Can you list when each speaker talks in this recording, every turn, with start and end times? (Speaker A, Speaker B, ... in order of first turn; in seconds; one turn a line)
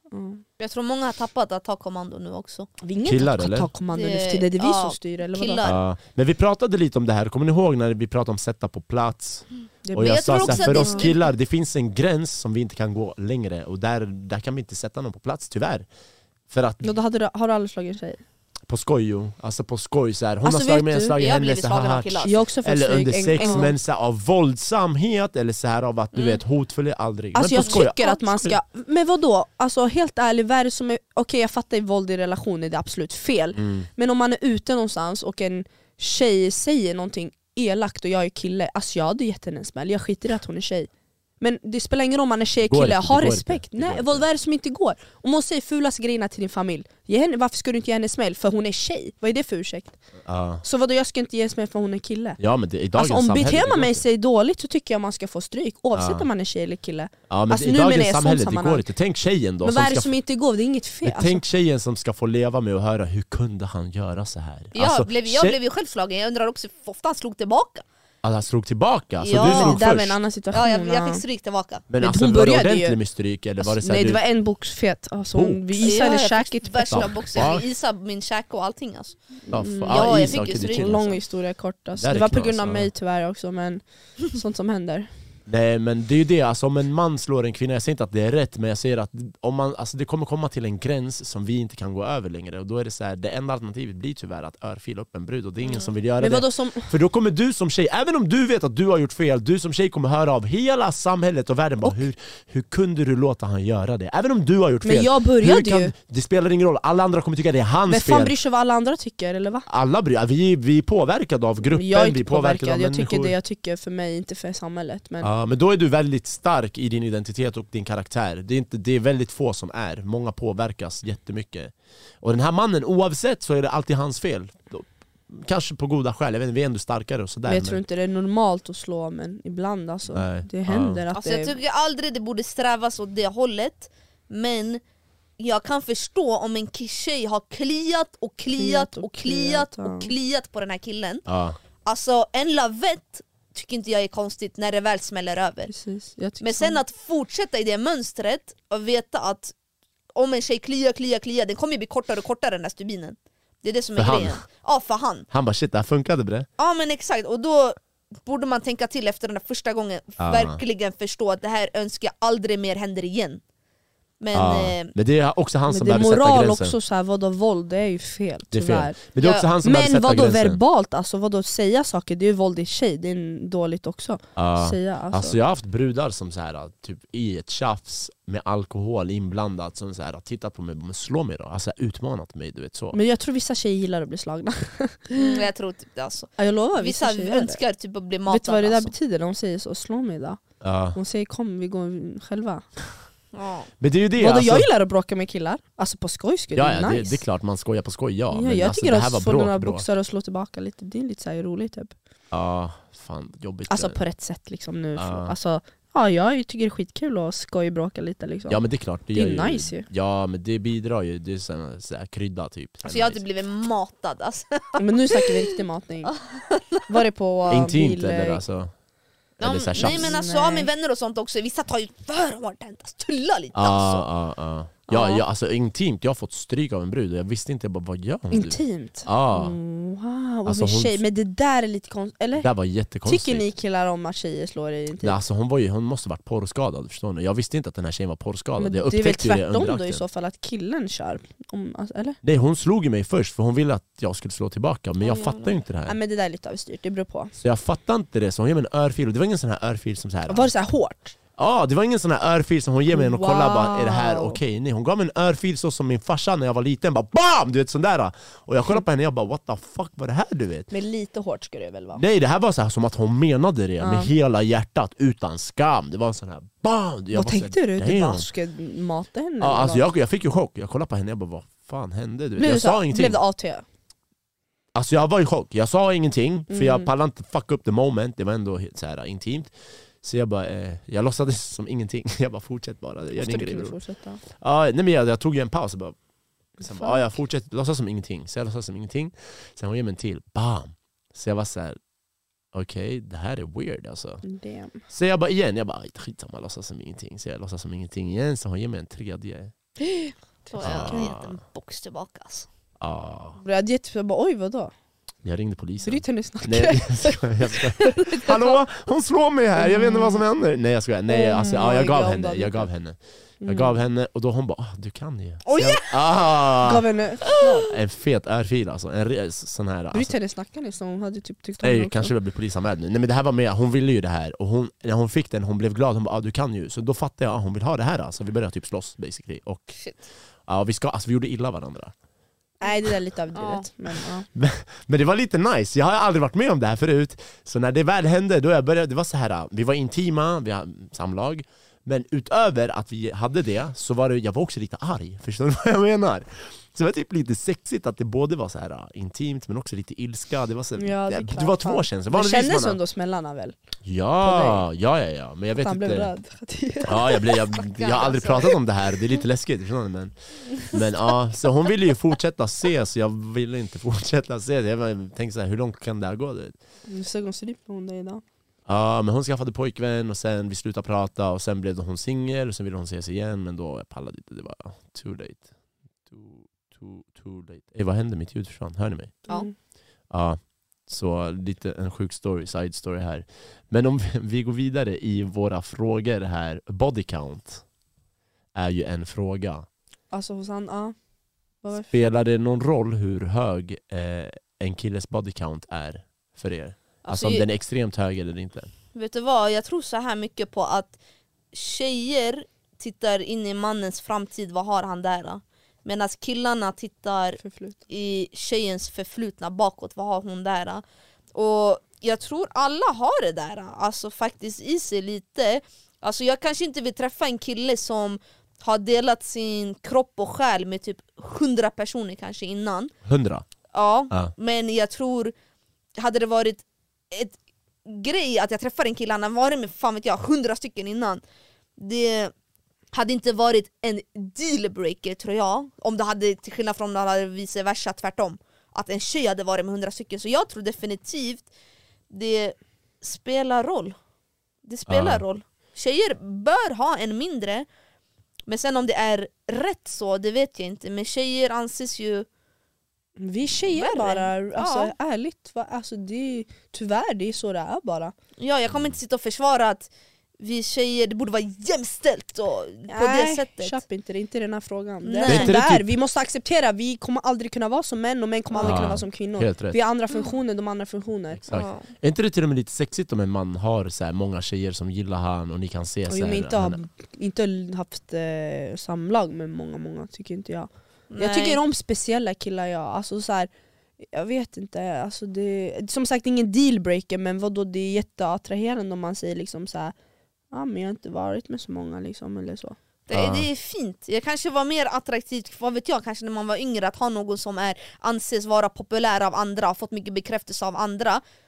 Speaker A: 0.1-0.4
Speaker B: 0.6-2.7
Speaker A: 2.8-5.7
Speaker C: 3.0-3.7
Speaker B: 3.9-5.8
Speaker C: 5.6-15.9
Speaker A: 9.9-11.1
Speaker B: 10.0-11.3
Speaker C: 16.5-16.8
Speaker A: 16.8-18.2
Speaker C: 18.7-28.6
Speaker A: 20.4-21.2
Speaker B: 21.2-22.4
Speaker A: 22.2-23.7
Speaker B: 23.4-23.7
Speaker B: 26.1-26.4
Speaker A: 27.4-40.9
Speaker C: 33.6-33.9
Speaker A: 41.4-50.0
Speaker C: 42.6-44.2
Speaker C: 50.2-50.6
Speaker A: 50.6-52.4
Speaker C: 52.4-54.0
Speaker A: 53.0-58.9
Speaker C: 56.0-56.3
Speaker C: 57.3-60.1
Speaker A: 59.6-61.4
Speaker C: 61.0-65.6
Speaker B: 64.7-67.8
Speaker C: 68.2-70.2
Speaker B: 69.2-69.8
Speaker A: 69.4-71.2
Speaker B: 70.5-71.8
Speaker C: 71.9-74.2
Speaker A: 72.0-73.0
Speaker A: 73.6-77.5
Speaker C: 75.3-76.1
Speaker B: 75.8-79.2
Speaker C: 76.9-77.7
Speaker A: 79.5-85.1
Speaker C: 79.5-81.2
Speaker B: 79.9-80.9
Speaker C: 82.0-82.9
Speaker C: 85.5-108.3
Speaker A: 96.2-96.9
Speaker A: 104.8-105.9
Speaker A: 107.9-109.7
Speaker C: 109.7-113.3
Speaker A: 111.7-115.3
Speaker C: 115.2-127.8
Speaker A: 127.5-131.6
Speaker C: 130.1-131.0
Speaker B: 131.1-134.8
Speaker B: 135.4-141.2
Speaker A: 138.6-140.1
Speaker C: 141.3-141.6
Speaker B: 141.8-145.7
Speaker A: 145.7-146.8
Speaker B: 146.4-149.5
Speaker B: 150.2-155.3
Speaker C: 154.0-154.4
Speaker C: 155.3-156.5
Speaker B: 156.6-163.4
Speaker C: 160.2-160.6
Speaker B: 164.2-164.9
Speaker C: 164.3-166.8
Speaker A: 165.7-169.0
Speaker C: 168.5-170.6
Speaker B: 169.2-169.5
Speaker A: 169.6-175.4
Speaker C: 174.4-183.0
Speaker A: 182.9-185.4
Speaker B: 185.1-188.9
Speaker A: 186.4-187.6
Speaker A: 188.3-190.4
Speaker C: 190.6-191.0
Speaker A: 190.9-192.7
Speaker B: 193.3-193.7
Speaker C: 193.8-194.7
Speaker A: 194.2-197.2
Speaker C: 196.6-199.9
Speaker A: 198.3-201.9
Speaker C: 202.3-204.0
Speaker A: 203.7-209.9
Speaker C: 205.0-205.3
Speaker C: 208.5-213.2
Speaker B: 212.8-215.5
Speaker A: 214.8-216.2
Speaker B: 216.1-217.0
Speaker A: 216.9-218.4
Speaker C: 217.5-218.7
Speaker C: 219.4-220.2
Speaker B: 219.4-224.1
Speaker A: 219.8-220.7
Speaker C: 223.5-229.6
Speaker A: 228.3-232.5
Speaker C: 230.5-231.0
Speaker C: 232.4-233.4
Speaker A: 233.1-235.2
Speaker C: 235.0-240.0
Speaker A: 238.6-242.2
Speaker C: 242.2-246.0
Speaker B: 245.0-245.6
Speaker A: 245.9-247.3
Speaker C: 247.4-250.5
Speaker A: 250.3-251.2
Speaker C: 251.4-260.7
Speaker A: 252.9-254.4
Speaker A: 260.7-262.0
Speaker C: 262.0-268.3
Speaker A: 263.8-264.1
Speaker A: 267.1-269.8
Speaker C: 269.4-273.2
Speaker A: 272.4-273.6
Speaker C: 274.7-283.8
Speaker A: 276.5-276.9
Speaker A: 283.2-284.2
Speaker C: 284.3-286.0
Speaker A: 286.6-287.1
Speaker C: 286.6-291.8
Speaker C: 292.5-294.2
Speaker A: 294.2-294.8
Speaker C: 294.9-299.5
Speaker B: 299.8-302.5
Speaker C: 300.6-301.4
Speaker C: 302.8-303.4
Speaker A: 303.4-304.7
Speaker C: 305.2-316.9
Speaker A: 305.8-308.3
Speaker A: 309.6-310.2
Speaker A: 311.1-312.7
Speaker A: 313.4-313.8
Speaker B: 315.5-315.9
Speaker A: 316.6-317.7
Speaker B: 317.4-317.7
Speaker C: 317.5-320.1
Speaker A: 319.9-322.1
Speaker C: 321.6-329.8
Speaker C: 330.5-331.9
Speaker A: 332.6-334.3
Speaker B: 333.4-333.7
Speaker C: 334.3-352.8
Speaker A: 350.8-353.6
Speaker C: 353.8-356.1
Speaker A: 354.2-354.6
Speaker A: 355.6-357.5
Speaker C: 356.9-366.6
Speaker B: 357.6-358.6
Speaker A: 366.9-368.2
Speaker C: 368.7-375.5
Speaker C: 376.1-379.2
Speaker A: 379.3-379.5
Speaker C: 380.1-387.6
Speaker C: 388.6-389.7
Speaker A: 390.1-390.9
Speaker A: 391.6-391.9
Speaker C: 391.9-398.7
Speaker B: 397.1-397.4
Speaker B: 398.9-401.0
Speaker B: 401.5-410.8
Speaker A: 407.4-407.8
Speaker B: 411.3-422.9
Speaker C: 423.1-423.5
Speaker B: 423.7-425.3
Speaker B: 426.0-431.2
Speaker B: 431.8-432.3
Speaker B: 432.9-441.5
Speaker B: 442.1-444.0
Speaker B: 444.6-447.7
Speaker C: 444.9-445.2
Speaker B: 448.5-452.3
Speaker A: 453.2-458.1
Speaker B: 453.7-454.9
Speaker B: 458.4-459.9
Speaker B: 460.4-463.8
Speaker A: 462.9-471.4
Speaker B: 465.0-465.6
Speaker C: 465.3-465.9
Speaker C: 468.6-469.8
Speaker C: 471.4-476.8
Speaker B: 471.5-471.9
Speaker A: 476.1-483.5
Speaker B: 481.1-481.6
Speaker A: 484.0-489.9
Speaker A: 490.5-492.8
Speaker B: 493.1-501.2
Speaker C: 493.1-493.5